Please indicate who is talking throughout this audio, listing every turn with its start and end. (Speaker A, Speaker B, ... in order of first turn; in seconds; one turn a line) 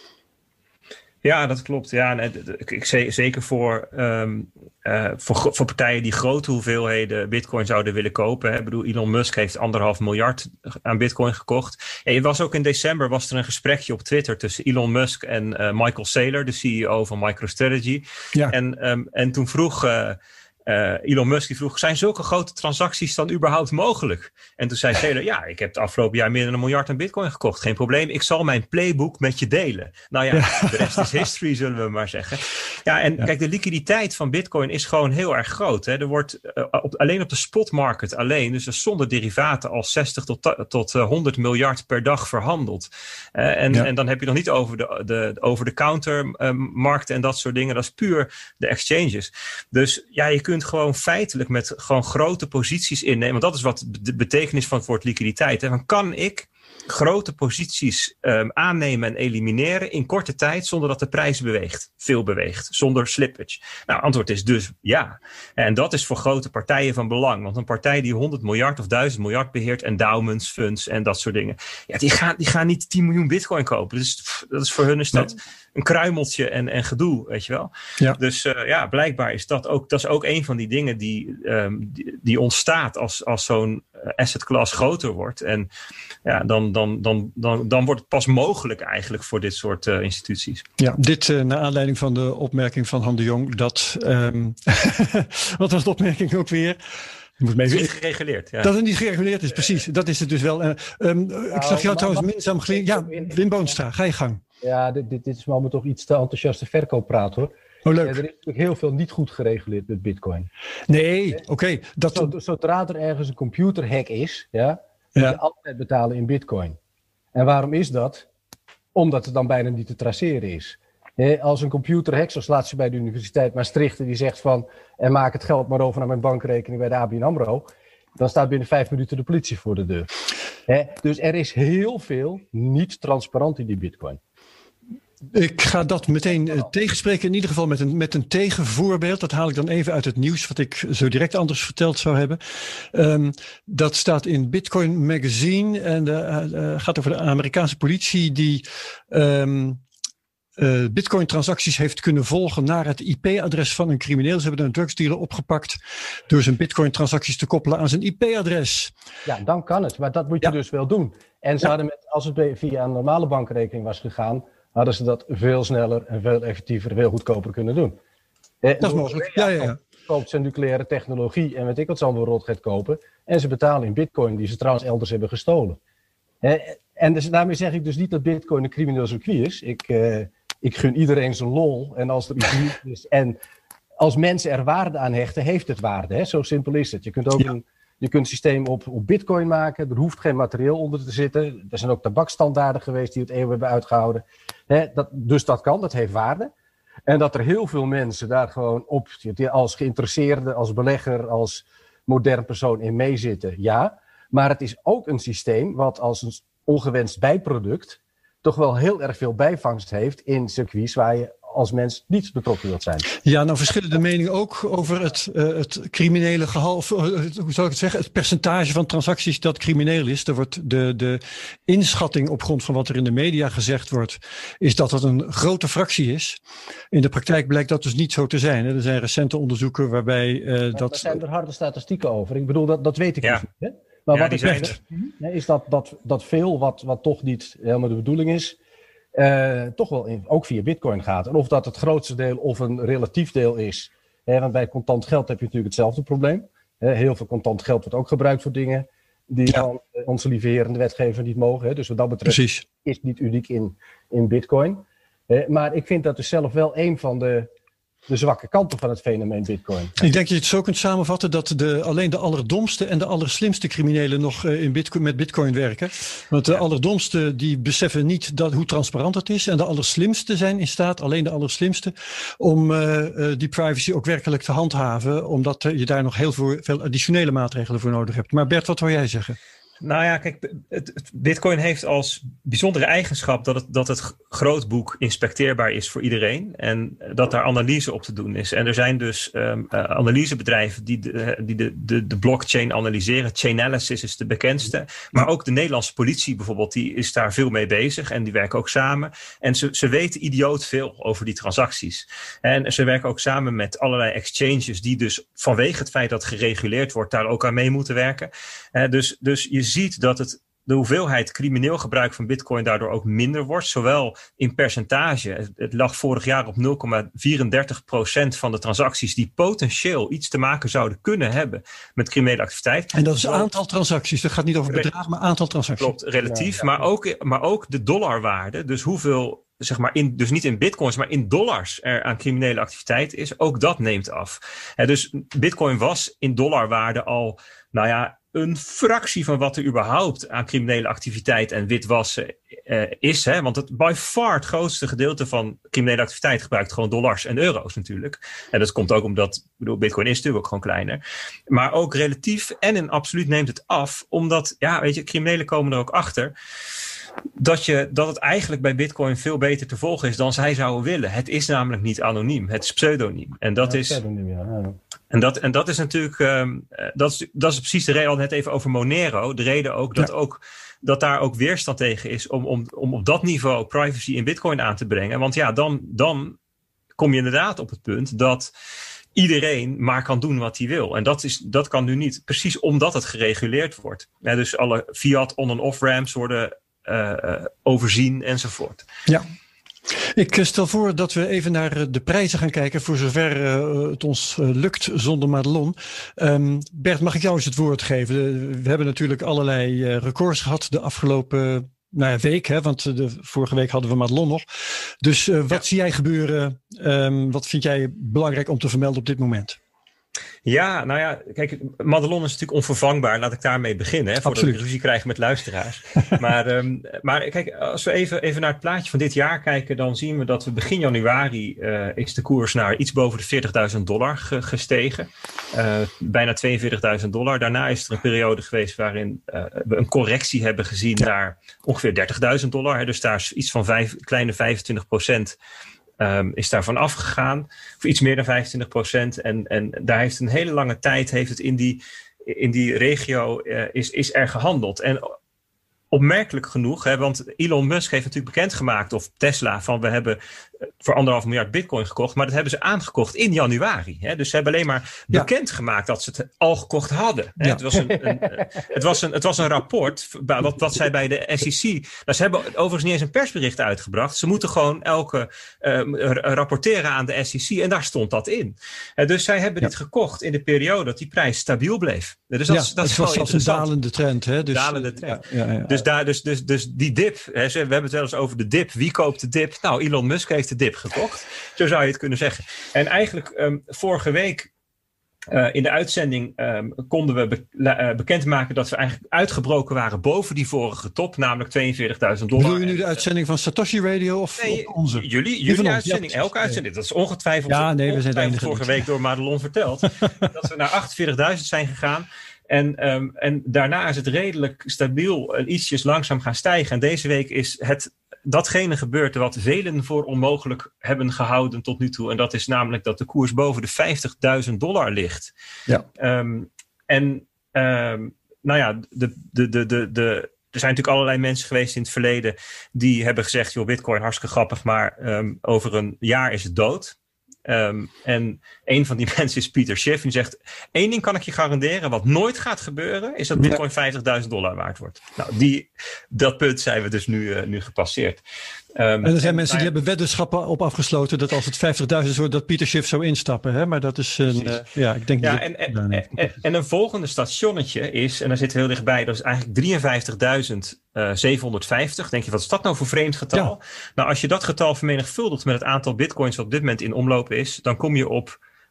Speaker A: 1.2-85.7
Speaker B: 30.3-31.1
Speaker A: 86.2-90.7
Speaker B: 90.8-96.8
Speaker B: 97.4-97.9
Speaker A: 97.6-98.7
Speaker B: 98.6-104.4
Speaker C: 101.5-103.7
Speaker C: 104.6-110.5
Speaker B: 107.8-108.2
Speaker B: 110.9-112.3
Speaker C: 112.1-116.8
Speaker B: 115.1-115.4
Speaker C: 117.3-118.3
Speaker C: 118.9-130.1
Speaker C: 130.7-134.2
Speaker B: 135.3-149.8
Speaker B: 150.6-158.9
Speaker C: 159.2-168.0
Speaker C: 168.6-175.8
Speaker B: 168.8-169.8
Speaker C: 176.4-183.4
Speaker C: 184.0-196.5
Speaker C: 197.1-213.1
Speaker B: 213.2-226.4
Speaker B: 226.9-231.2
Speaker C: 230.7-238.6
Speaker A: 234.1-234.7
Speaker C: 239.1-257.5
Speaker B: 252.3-252.6
Speaker C: 258.1-260.0
Speaker B: 260.0-279.4
Speaker A: 279.8-323.5
Speaker B: 322.9-325.9
Speaker A: 325.8-356.3
Speaker C: 326.2-326.8
Speaker A: 357.4-364.0
Speaker C: 363.6-364.8
Speaker A: 365.1-376.4
Speaker A: 377.0-378.5
Speaker A: 379.1-388.8
Speaker B: 389.9-409.6
Speaker A: 410.4-435.4
Speaker B: 414.2-414.6
Speaker A: 436.0-445.1
Speaker A: 445.9-450.2
Speaker A: 450.8-473.7
Speaker C: 457.9-458.4
Speaker B: 472.5-475.8
Speaker A: 474.4-484.5
Speaker A: 485.3-493.0
Speaker B: 492.4-496.6
Speaker A: 494.4-515.3
Speaker B: 497.5-498.7
Speaker B: 500.0-500.3
Speaker A: 516.0-527.0
Speaker A: 527.5-538.2
Speaker A: 538.8-539.7
Speaker B: 539.0-546.1
Speaker A: 544.2-544.6
Speaker A: 545.2-558.4